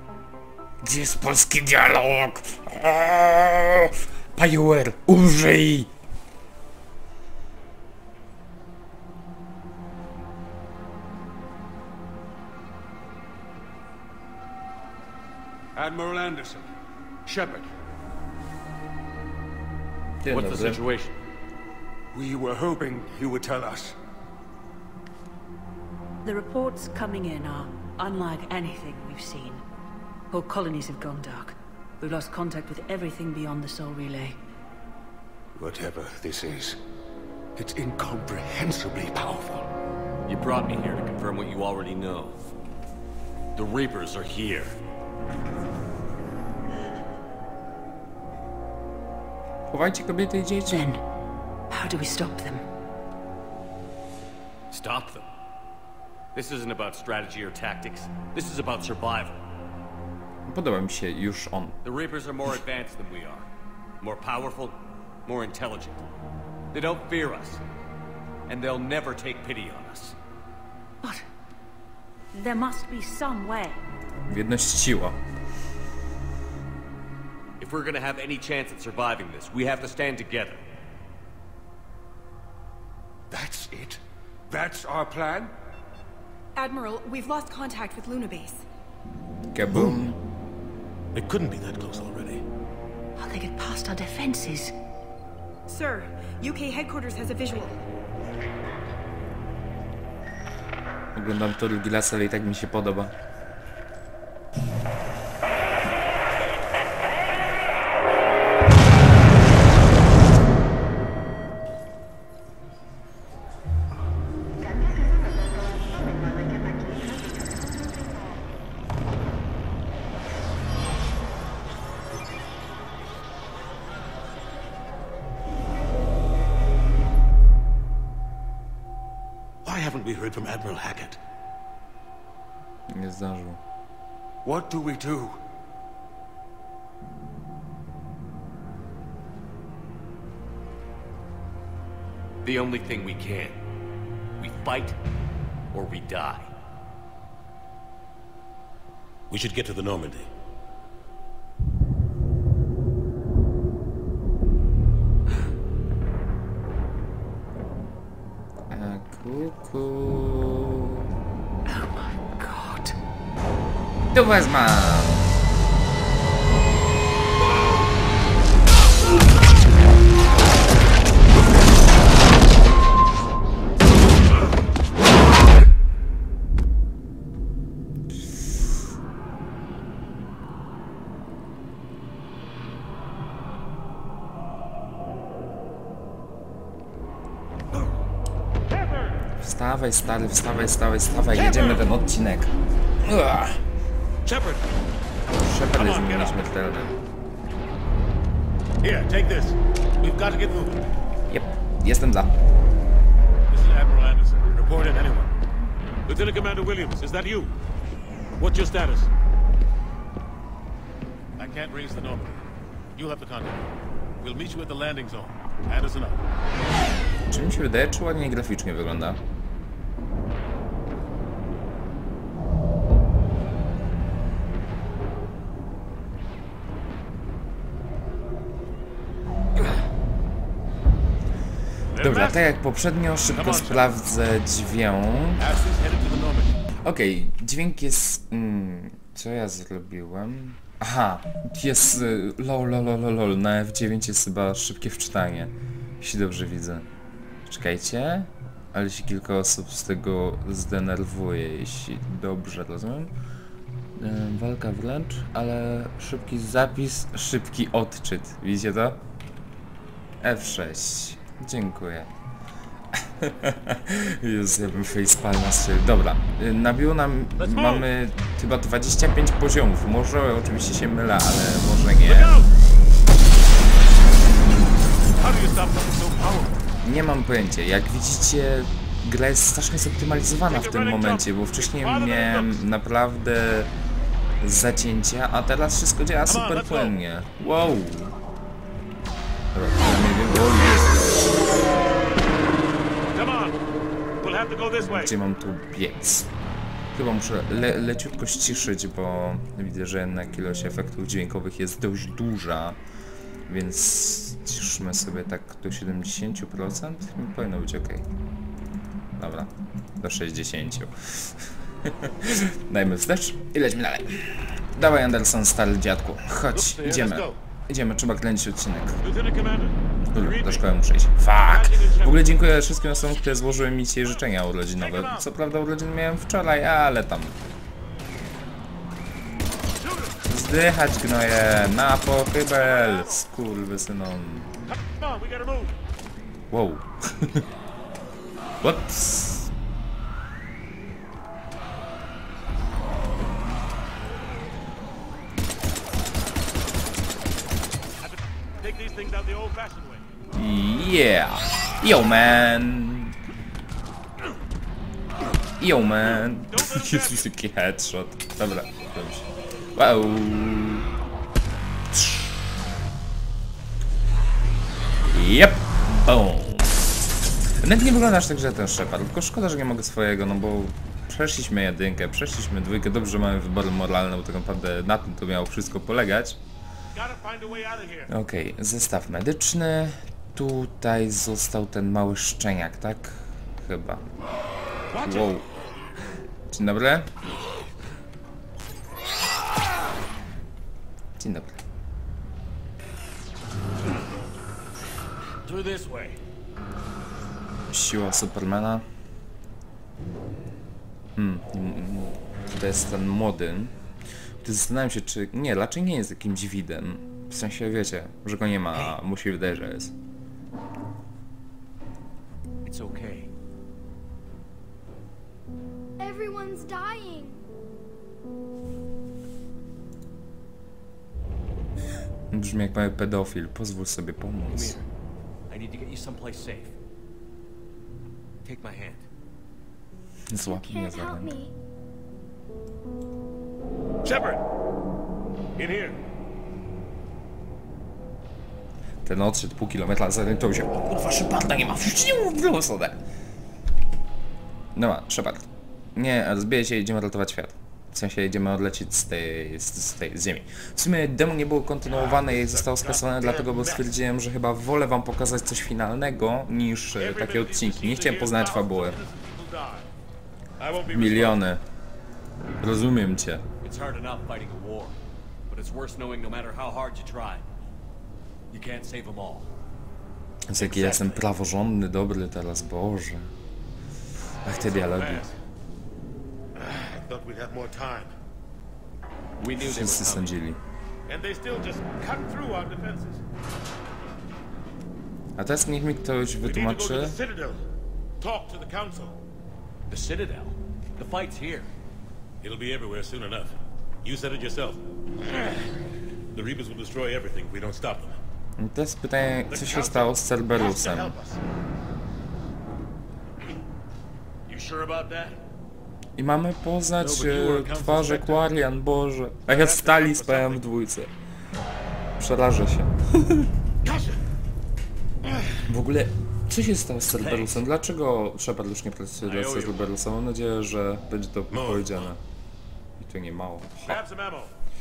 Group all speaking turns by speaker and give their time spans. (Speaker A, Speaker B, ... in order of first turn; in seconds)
Speaker A: 0.8-5.9, 20.2-20.8, 49.7-50.9, 60.5-61.8, 74.3-75.2, 89.5-90.2, 101.1-103.1, 132.9-133.6, 158.7-161.1, 164.1-165.3, 189.4-193.6, 195.4-197.0, 201.3-202.3, 217.3-219.2, 232.0-235.4, 236.8-246.9, 247.5-253.1, 254.0-259.0, 260.2-262.1, 262.9-272.3, 276.8-283.7, 284.4-288.1, 289.5-291.4, 294.9-296.3, 296.9-302.8, 303.5-308.0, 309.2-319.0, 320.1-327.3, 330.3-334.5, 336.5-337.4, 338.6-339.5, 350.3-353.1, 355.6-360.9, 361.9-362.3, 365.1-366.8, 367.6-376.4, 378.1-384.1, 385.0-385.4, 386.5-387.1, 391.2-391.6, 397.7-398.8, 401.1-403.7, 404.4-409.9, 422.3-424.8, 430.3-431.4, 439.0-443.0, 444.7-459.0, 460.9-461.6, 462.6-463.4, 470.5-473.3, 474.4-475.2, 479.5-480.6, 485.4-487.1, 498.6-501.1, 506.2-511.1, 512.2-513.5, 515.7-522.2, 523.0-524.0
Speaker B: 15.7-16.7, 17.2-17.7, 22.1-23.9, 35.5-36.8, 37.5-39.7, 83.3-85.5, 134.4-135.4
Speaker C: 20.3-21.2, 40.3-42.3, 43.5-44.7, 54.7-55.3, 56.3-59.4, 61.8-63.5, 64.0-66.0, 66.7-67.6, 68.5-70.2, 77.6-80.6, 142.4-143.6, 144.4-145.0, 145.7-146.5, 395.4-396.2, 412.6-413.3, 424.5-424.9, 425.5-426.7, 428.4-429.1, 463.6-465.0, 465.5-467.4, 468.5-469.5, 470.6-471.2, 479.4-480.4, 489.9-491.7, 504.5-505.4, 507.5-507.9, 517.2-517.6, 519.2-519.9
Speaker D: 26.2-29.6, 30.3-34.4, 50.7-51.0, 51.7-52.6, 72.3-73.8, 93.2-94.7, 161.7-162.9
Speaker E: 86.5-88.6, 95.7-97.8
Speaker F: 91.1-92.4, 129.6-131.2, 149.3-150.3, 194.2-194.6, 195.8-196.4, 198.8-200.8, 203.5-205.3, 206.1-207.5, 208.4-209.1, 211.4-212.4, 212.9-213.6, 214.2-216.2, 231.9-232.4, 233.3-233.9, 235.4-236.6, 267.4-267.9, 272.0-272.5, 275.2-276.6, 280.5-282.6, 286.3-286.9, 293.1-293.6, 294.2-295.1, 316.5-317.4, 319.0-320.6, 321.3-322.2, 324.8-325.3, 329.8-330.2, 332.6-333.2, 334.7-335.7, 348.0-350.0, 356.5-357.3, 376.9-378.1, 384.9-385.3, 434.0-434.4, 435.6-436.0, 451.9-453.9, 457.0-459.9, 460.6-461.4, 474.5-475.4, 476.5-478.1, 481.1-483.2, 486.4-487.6, 488.2-489.1, 492.4-495.6, 496.3-498.2, 499.5-501.4, 507.0-508.3, 509.5-510.6, 513.8-514.2, 521.5-522.1, 523.9-524.5
Speaker G: 416.0-417.4, 430.5-431.5